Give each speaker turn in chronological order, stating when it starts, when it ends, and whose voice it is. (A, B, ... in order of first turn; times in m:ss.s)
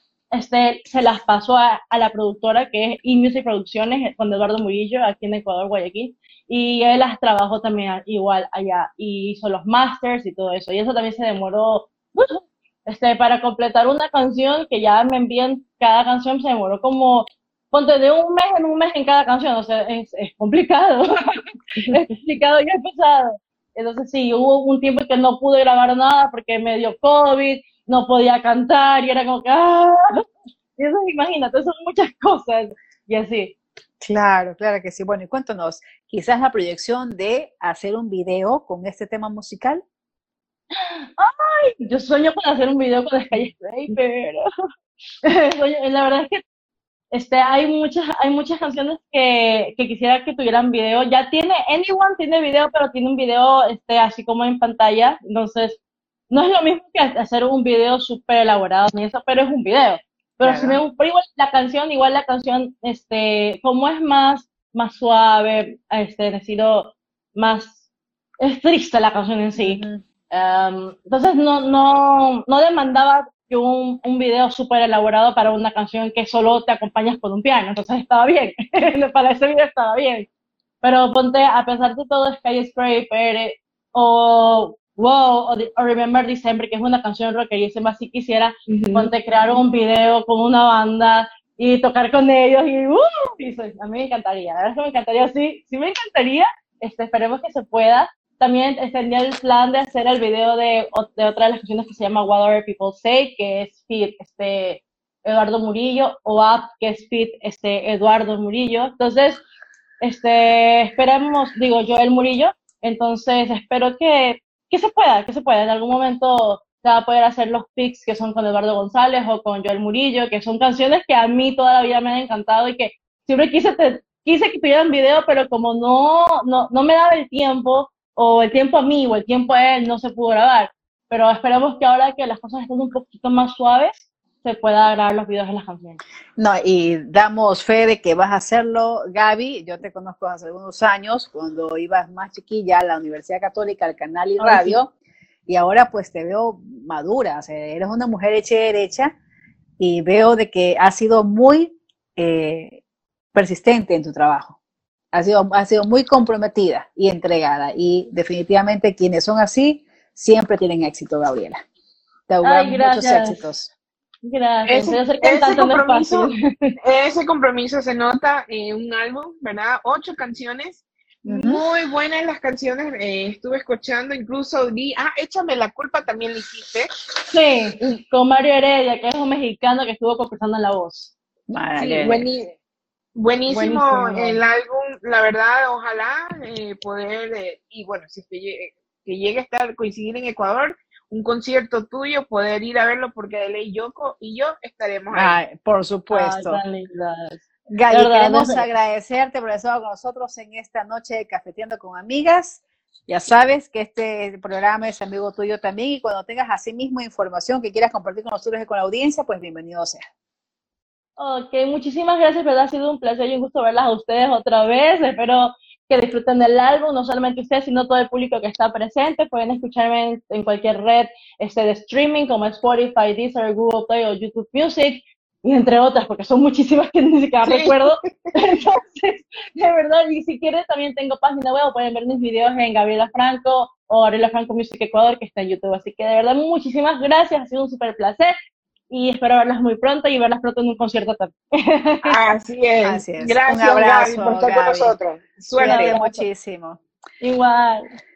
0:00.3-0:30.3 A
0:30.8-0:33.6 A
0:34.0-0:39.8 B
0:40.8-0:44.5 A
0:45.2-0:46.4 A
0:47.1-0:55.8 A
0:56.3-1:07.7 A
1:00.4-1:00.8 B
1:08.4-1:20.3 A
1:09.6-1:10.0 B
1:20.8-1:49.4 A
1:28.7-1:29.1 C
1:50.0-2:13.9 A
2:14.4-2:16.0 A
2:16.4-2:24.9 B
2:24.4-2:24.8 A
2:25.5-2:29.1 B
2:29.8-2:32.8 B
2:33.4-2:34.6 B
2:35.1-2:41.6 B
2:42.3-2:43.7 B
2:42.4-2:43.4 A
2:44.2-2:46.7 A
2:44.7-2:56.9 C
2:51.3-2:51.6 B
2:57.3-3:01.1 A
3:01.5-3:02.2 B
3:01.8-3:02.5 C
3:03.2-3:15.4 C
3:03.5-3:03.8 B
3:03.6-3:04.3 A
3:15.1-3:16.6 B
3:16.1-3:18.6 A
3:17.7-3:30.0 B
3:31.2-3:58.4 A
3:47.4-3:48.3 C
3:58.9-4:02.2 A
4:02.0-4:06.2 C
4:02.8-4:05.0 B
4:05.6-4:06.8 B
4:05.6-4:06.1 A
4:07.2-4:07.9 A